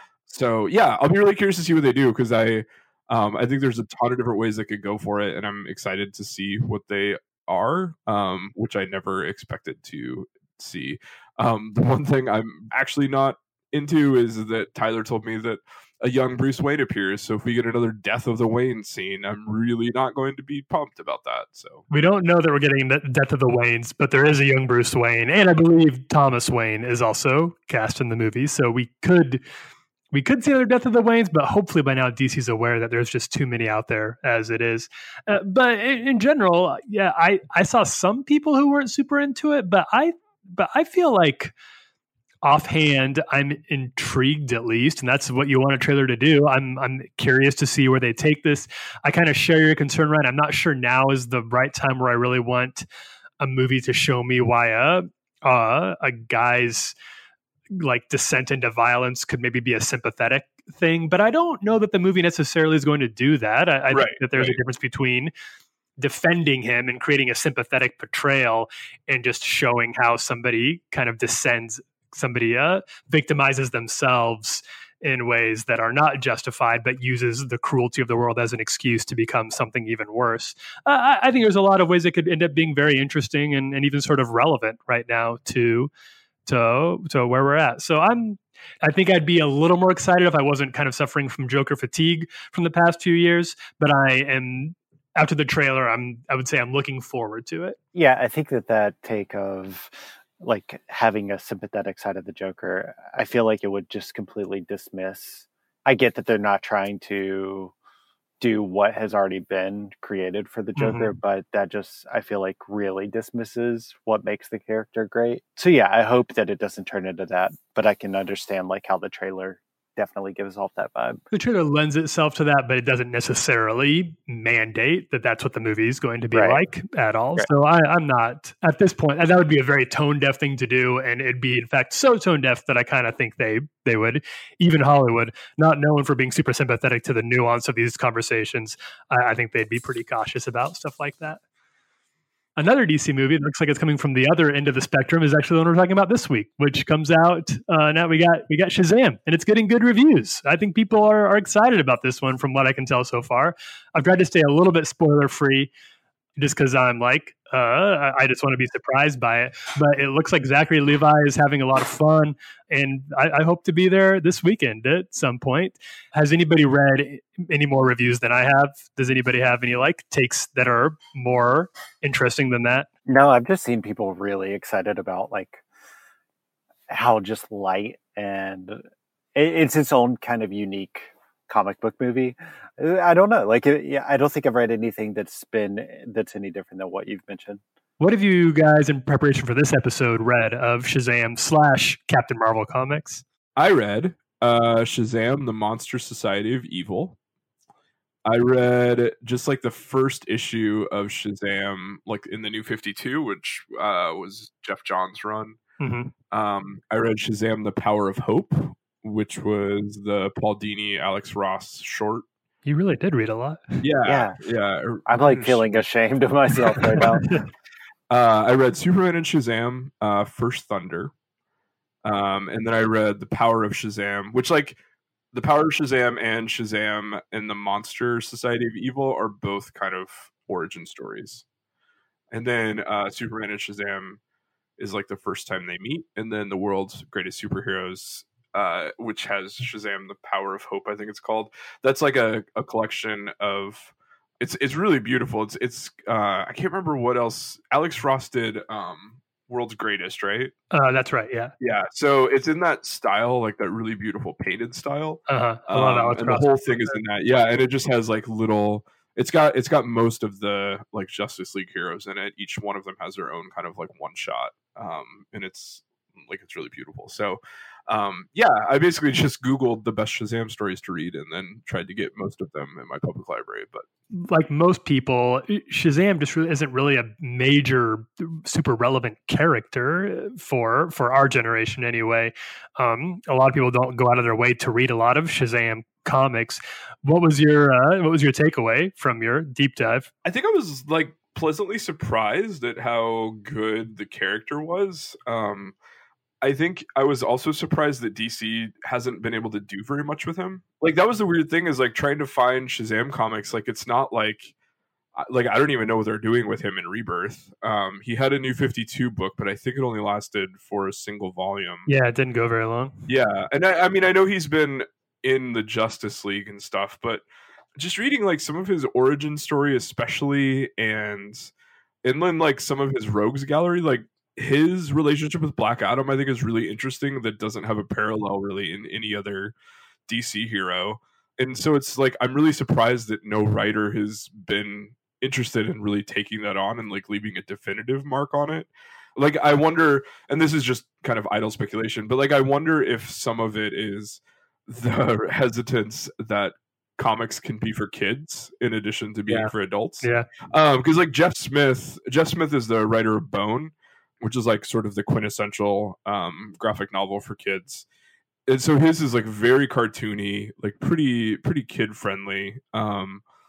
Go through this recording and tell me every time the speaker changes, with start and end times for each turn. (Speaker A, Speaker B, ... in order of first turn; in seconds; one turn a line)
Speaker A: 0.3-21.8
Speaker B: 21.9-29.4
Speaker B: 30.1-41.5
Speaker B: 42.4-52.9
Speaker B: 53.4-57.0
Speaker B: 57.7-65.3
Speaker A: 63.9-64.6
Speaker B: 66.0-85.9
Speaker B: 86.5-97.8
Speaker C: 97.9-107.7
Speaker C: 108.4-121.2
Speaker B: 110.8-111.1
Speaker B: 121.3-141.4
Speaker C: 126.3-126.6
Speaker B: 142.6-155.7
Speaker B: 156.4-172.9
Speaker C: 173.1-175.6
Speaker C: 176.9-178.8
Speaker C: 179.3-187.6
Speaker B: 188.0-193.2
Speaker A: 193.6-197.2
Speaker A: 198.3-205.6
Speaker B: 205.8-206.1
Speaker A: 206.3-212.2
Speaker B: 212.7-213.8
Speaker A: 213.8-215.8
Speaker C: 214.1-214.4
Speaker C: 215.1-217.2
Speaker B: 217.0-217.4
Speaker A: 218.1-221.1
Speaker A: 222.0-224.8
Speaker A: 225.3-231.4
Speaker A: 232.3-234.2
Speaker A: 234.8-250.5
Speaker B: 250.7-251.5
Speaker A: 251.6-273.9
Speaker B: 255.3-256.5
Speaker B: 274.1-290.1
Speaker A: 290.2-295.8
Speaker A: 296.4-304.5
Speaker A: 305.2-311.9
Speaker B: 311.9-313.0
Speaker A: 313.1-317.3
Speaker A: 317.8-321.5
Speaker A: 322.0-329.5
Speaker A: 330.1-357.9
Speaker A: 358.5-363.2